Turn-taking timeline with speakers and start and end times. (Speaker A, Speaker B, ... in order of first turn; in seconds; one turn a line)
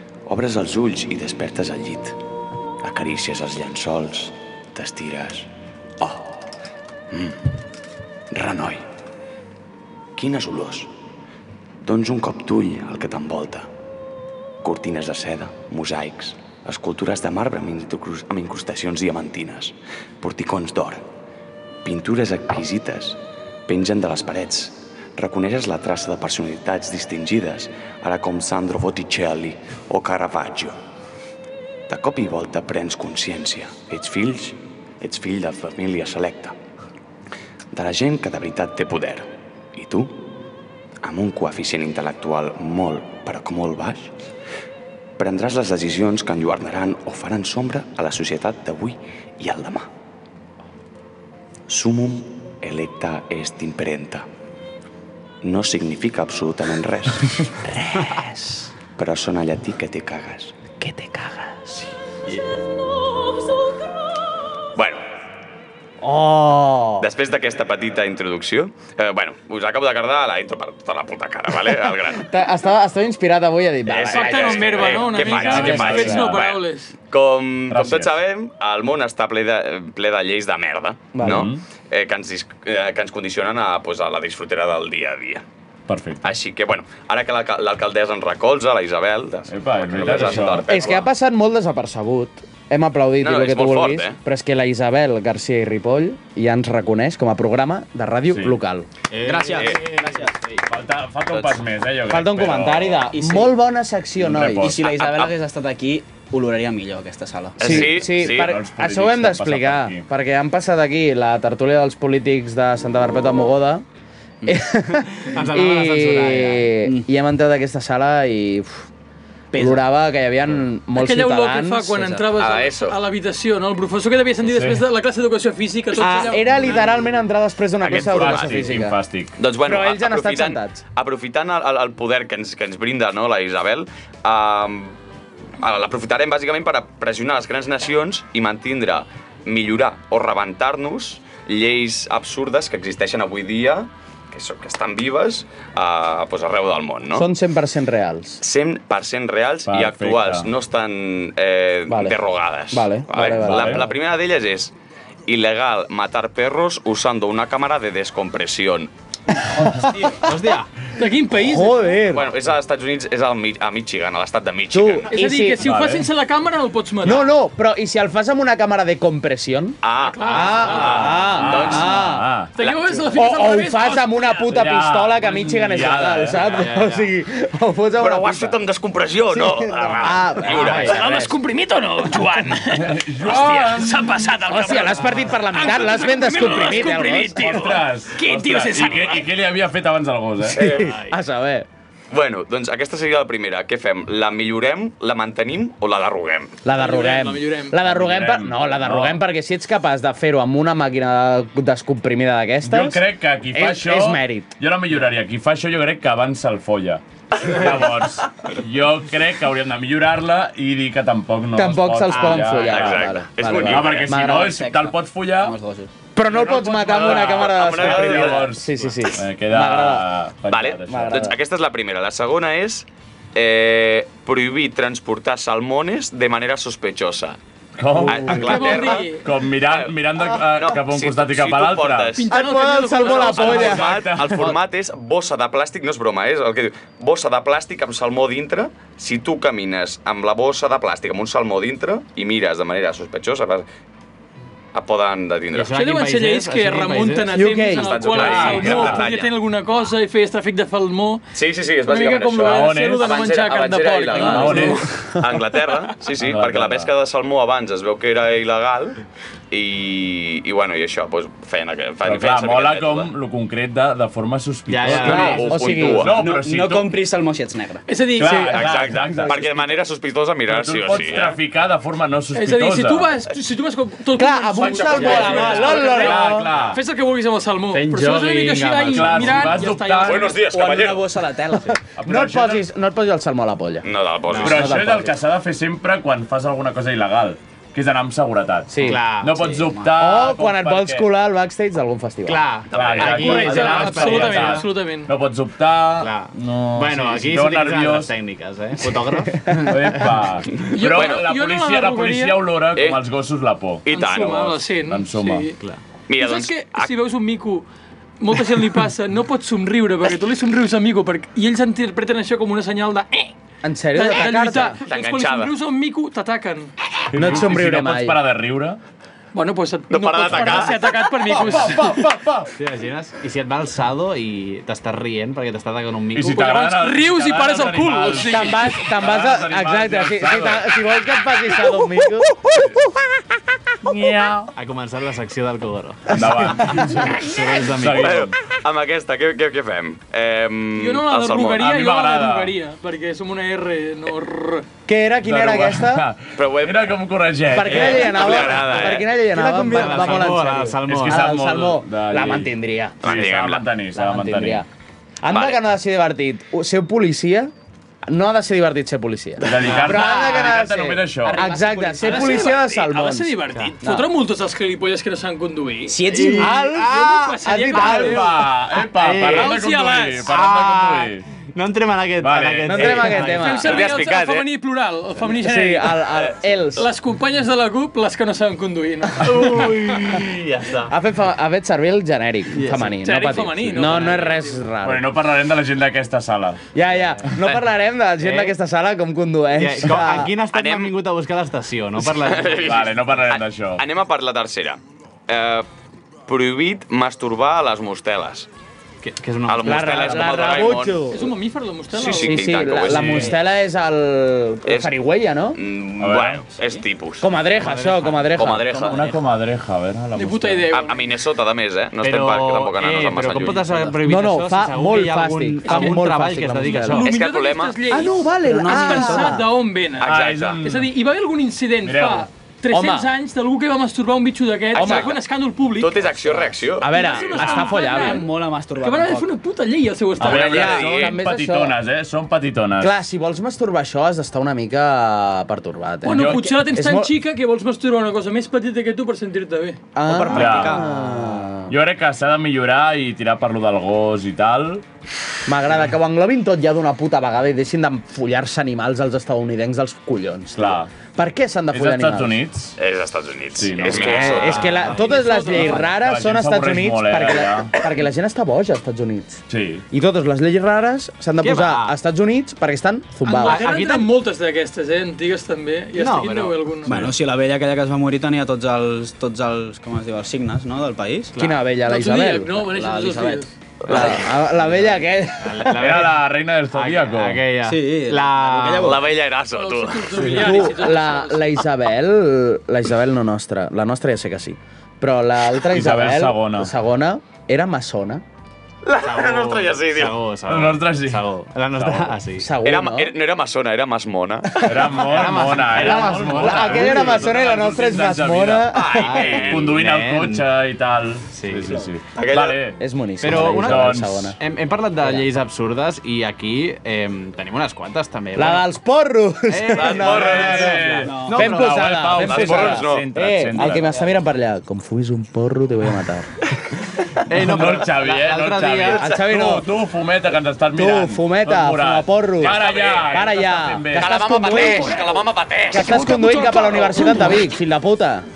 Speaker A: 0.3-2.2
Speaker A: 2.8-5.5
Speaker A: 6.0-6.4
Speaker A: 7.1-7.4
Speaker A: 8.3-8.8
Speaker A: 10.2-10.9
Speaker A: 11.8-13.7
Speaker A: 14.6-21.0
Speaker A: 21.8-30.8
Speaker A: 31.9-36.5
Speaker A: 37.7-40.2
Speaker A: 41.0-44.1
Speaker A: 45.2-49.9
Speaker A: 51.7-54.2
Speaker A: 55.4-57.5
Speaker B: 57.6-58.7
Speaker A: 59.0-60.6
Speaker B: 60.8-61.8
Speaker A: 64.7-65.0
Speaker B: 66.0-67.1
Speaker A: 67.0-72.2
Speaker B: 72.1-76.0
Speaker A: 73.9-85.4
Speaker C: 74.1-76.9
Speaker D: 75.2-76.5
Speaker D: 77.7-78.1
Speaker B: 81.1-81.5
Speaker D: 81.2-81.6
Speaker D: 85.9-86.2
Speaker A: 86.2-91.1
Speaker D: 89.5-90.7
Speaker B: 90.7-98.9
Speaker A: 93.2-94.2
Speaker D: 98.3-98.6
Speaker E: 99.1-100.3
Speaker F: 99.2-100.6
Speaker D: 100.7-103.1
Speaker B: 102.1-104.7
Speaker F: 103.1-103.5
Speaker D: 104.2-104.8
Speaker F: 104.6-107.8
Speaker A: 104.8-105.3
Speaker A: 107.6-108.6
Speaker B: 107.6-113.8
Speaker D: 107.6-110.0
Speaker B: 114.5-118.9
Speaker E: 115.3-116.7
Speaker F: 119.5-119.8
Speaker B: 119.5-122.2
Speaker C: 120.9-126.8
Speaker A: 122.3-123.0
Speaker D: 124.4-124.8
Speaker B: 126.0-129.0
Speaker A: 127.8-128.8
Speaker D: 127.9-129.3
Speaker A: 129.4-135.0
Speaker B: 129.6-130.8
Speaker A: 135.6-147.3
Speaker B: 147.1-148.4
Speaker A: 148.4-154.7
Speaker D: 149.7-150.5
Speaker B: 151.9-152.2
Speaker B: 152.7-153.9
Speaker D: 153.4-153.8
Speaker A: 155.3-158.9
Speaker B: 159.6-160.0
Speaker E: 159.9-160.7
Speaker C: 160.9-162.0
Speaker B: 161.3-162.3
Speaker A: 162.1-165.1
Speaker B: 164.7-165.7
Speaker C: 165.1-167.3
Speaker D: 165.6-166.1
Speaker B: 167.0-172.3
Speaker A: 169.8-172.1
Speaker C: 170.0-171.3
Speaker D: 170.7-172.5
Speaker C: 172.6-174.4
Speaker A: 172.6-173.1
Speaker B: 173.1-178.6
Speaker D: 174.5-176.5
Speaker E: 176.4-177.1
Speaker A: 178.0-181.0
Speaker B: 179.3-181.3
Speaker C: 180.6-189.3
Speaker D: 182.7-184.2
Speaker B: 184.5-187.6
Speaker D: 186.4-186.8
Speaker D: 187.4-190.7
Speaker B: 190.5-191.7
Speaker A: 190.6-190.9
Speaker A: 192.1-196.6
Speaker B: 196.6-203.0
Speaker C: 196.7-197.8
Speaker D: 197.8-199.2
Speaker D: 202.6-215.5
Speaker B: 203.5-204.5
Speaker B: 211.5-214.6
Speaker E: 212.1-212.4
Speaker A: 212.7-214.2
Speaker F: 214.2-215.9
Speaker B: 216.1-220.1
Speaker D: 216.3-221.3
Speaker A: 216.8-218.5
Speaker A: 220.5-227.4
Speaker B: 220.9-221.4
Speaker D: 227.8-232.2
Speaker A: 228.0-232.4
Speaker B: 228.1-228.4
Speaker C: 228.3-229.2
Speaker C: 232.2-233.8
Speaker B: 232.3-233.9
Speaker A: 233.0-243.7
Speaker D: 233.4-234.6
Speaker A: 244.7-245.8
Speaker E: 245.5-247.3
Speaker C: 245.7-251.2
Speaker B: 247.3-248.1
Speaker A: 247.7-249.3
Speaker D: 248.1-249.1
Speaker A: 251.3-259.0
Speaker C: 251.8-254.9
Speaker D: 252.4-253.1
Speaker D: 254.2-254.9
Speaker D: 256.2-256.9
Speaker A: 259.5-263.1
Speaker D: 262.0-266.9
Speaker E: 264.7-265.7
Speaker A: 264.9-266.1
Speaker B: 265.1-266.1
Speaker F: 266.0-267.9
Speaker C: 267.9-268.7
Speaker D: 268.2-269.5
Speaker A: 268.3-271.4
Speaker D: 270.5-273.1
Speaker C: 272.3-280.5
Speaker B: 274.1-276.5
Speaker A: 274.9-275.5
Speaker D: 274.9-276.8
Speaker E: 277.7-279.7
Speaker D: 278.9-280.4
Speaker A: 280.0-281.1
Speaker F: 280.4-281.8
Speaker B: 281.5-283.9
Speaker D: 282.0-282.7
Speaker A: 283.8-284.8
Speaker E: 284.3-284.9
Speaker D: 284.4-291.1
Speaker F: 284.4-285.1
Speaker B: 288.7-289.0
Speaker E: 288.8-289.6
Speaker F: 289.4-289.9
Speaker B: 289.9-292.4
Speaker E: 292.2-294.6
Speaker A: 292.7-293.4
Speaker D: 292.7-298.1
Speaker C: 293.1-295.1
Speaker E: 296.0-299.7
Speaker D: 299.6-305.5
Speaker C: 300.6-302.5
Speaker A: 300.8-301.2
Speaker A: 302.7-303.0
Speaker A: 303.8-304.6
Speaker C: 303.9-305.6
Speaker A: 306.1-306.9
Speaker C: 306.1-307.7
Speaker C: 308.2-313.3
Speaker B: 313.6-314.8
Speaker C: 313.9-316.7
Speaker A: 314.8-315.5
Speaker D: 317.1-318.8
Speaker B: 317.1-318.2
Speaker C: 319.3-322.0
Speaker A: 319.9-321.0
Speaker B: 321.4-322.5
Speaker E: 322.6-326.5
Speaker D: 326.1-330.7
Speaker C: 326.2-328.9
Speaker B: 328.3-332.4
Speaker B: 333.8-334.5
Speaker E: 334.5-338.2
Speaker D: 336.1-338.4
Speaker A: 338.0-341.7
Speaker C: 340.7-344.7
Speaker D: 341.6-342.5
Speaker B: 344.9-346.1
Speaker D: 345.2-348.6
Speaker A: 346.4-346.9
Speaker B: 347.5-353.0
Speaker A: 347.7-349.1
Speaker E: 349.3-351.2
Speaker F: 349.4-350.6
Speaker D: 350.9-352.5
Speaker A: 353.0-353.6
Speaker D: 353.0-354.6
Speaker B: 353.9-354.6
Speaker B: 355.2-357.5
Speaker A: 355.3-355.6
Speaker B: 358.1-364.1
Speaker D: 359.4-361.4
Speaker E: 359.6-360.0
Speaker F: 361.3-362.5
Speaker C: 362.0-366.0
Speaker F: 365.9-366.7
Speaker E: 366.1-367.3
Speaker B: 366.4-368.3
Speaker C: 366.7-368.5
Speaker D: 367.8-371.2
Speaker E: 368.8-369.6
Speaker C: 369.2-370.3
Speaker E: 370.2-373.5
Speaker D: 372.2-373.3
Speaker B: 372.7-373.8
Speaker C: 373.2-376.1
Speaker A: 373.5-374.5
Speaker B: 375.4-376.9
Speaker C: 376.8-380.1
Speaker E: 379.2-380.8
Speaker B: 380.9-385.0
Speaker E: 382.5-383.0
Speaker C: 383.0-384.6
Speaker D: 384.8-386.6
Speaker B: 386.7-390.3
Speaker E: 387.2-387.5
Speaker E: 388.2-388.5
Speaker E: 389.6-392.9
Speaker A: 390.4-390.9
Speaker A: 392.1-395.7
Speaker D: 392.6-393.8
Speaker A: 396.3-398.5
Speaker E: 399.0-400.5
Speaker A: 399.5-401.1
Speaker B: 399.6-401.3
Speaker C: 401.1-402.5
Speaker A: 401.9-403.3
Speaker B: 402.1-405.6
Speaker D: 402.9-403.3
Speaker E: 403.0-403.3
Speaker A: 404.6-404.9
Speaker A: 405.5-407.3
Speaker D: 406.0-406.4
Speaker B: 407.2-408.7
Speaker E: 407.6-408.9
Speaker A: 408.3-409.0
Speaker D: 408.7-410.7
Speaker C: 410.1-411.1
Speaker A: 410.7-413.8
Speaker E: 412.0-417.1
Speaker B: 414.0-417.1
Speaker C: 415.6-416.0
Speaker C: 416.6-426.0
Speaker A: 417.0-417.8
Speaker B: 417.9-419.4
Speaker F: 418.4-419.4
Speaker A: 420.0-420.6
Speaker D: 420.0-420.9
Speaker D: 421.8-422.3
Speaker B: 422.7-423.1
Speaker A: 424.7-425.2
Speaker B: 424.7-425.1
Speaker A: 425.7-427.6
Speaker B: 426.8-428.2
Speaker C: 426.9-430.5
Speaker F: 427.6-429.3
Speaker D: 430.2-432.9
Speaker A: 430.2-431.2
Speaker B: 430.3-431.8
Speaker B: 432.8-437.1
Speaker C: 436.0-439.8
Speaker D: 436.0-436.4
Speaker B: 439.9-441.7
Speaker F: 440.0-441.4
Speaker D: 440.3-440.9
Speaker D: 441.7-444.8
Speaker B: 445.5-452.4
Speaker D: 450.6-450.9
Speaker D: 451.7-452.7
Speaker A: 452.8-454.8
Speaker D: 453.5-454.5
Speaker B: 453.9-463.7
Speaker E: 454.0-455.4
Speaker C: 454.8-455.8
Speaker D: 455.5-457.7
Speaker D: 459.5-459.8
Speaker E: 461.4-462.0
Speaker C: 463.3-466.9
Speaker E: 463.3-464.1
Speaker E: 465.9-467.1
Speaker D: 466.9-467.1
Speaker F: 466.9-471.4
Speaker E: 471.3-471.6
Speaker B: 471.4-472.5
Speaker C: 471.8-473.5
Speaker F: 472.5-474.2
Speaker A: 473.8-474.2
Speaker B: 473.9-476.0
Speaker E: 475.4-476.1
Speaker D: 475.8-477.4
Speaker E: 476.7-479.0
Speaker F: 477.6-479.1
Speaker A: 478.8-480.3
Speaker C: 479.5-481.5
Speaker B: 480.2-488.2
Speaker D: 485.7-486.7
Speaker A: 488.8-490.1
Speaker E: 489.0-492.5
Speaker D: 490.5-492.2
Speaker B: 492.4-493.1
Speaker A: 492.6-494.8
Speaker D: 494.6-502.8
Speaker E: 495.1-497.2
Speaker B: 495.8-499.3
Speaker A: 498.7-499.7
Speaker E: 498.9-500.4
Speaker E: 501.3-501.7
Speaker A: 502.1-502.6
Speaker B: 502.8-504.4
Speaker E: 503.2-508.7
Speaker D: 503.3-504.3
Speaker B: 508.3-516.3
Speaker E: 509.5-511.4
Speaker A: 509.7-510.8
Speaker D: 509.9-513.9
Speaker F: 511.0-511.7
Speaker A: 512.2-513.1
Speaker E: 517.2-519.1
Speaker D: 517.3-524.2
Speaker B: 519.0-519.7
Speaker B: 520.7-525.1
Speaker A: 522.4-523.2
Speaker A: 523.9-526.0
Speaker B: 525.7-528.3
Speaker C: 525.7-527.4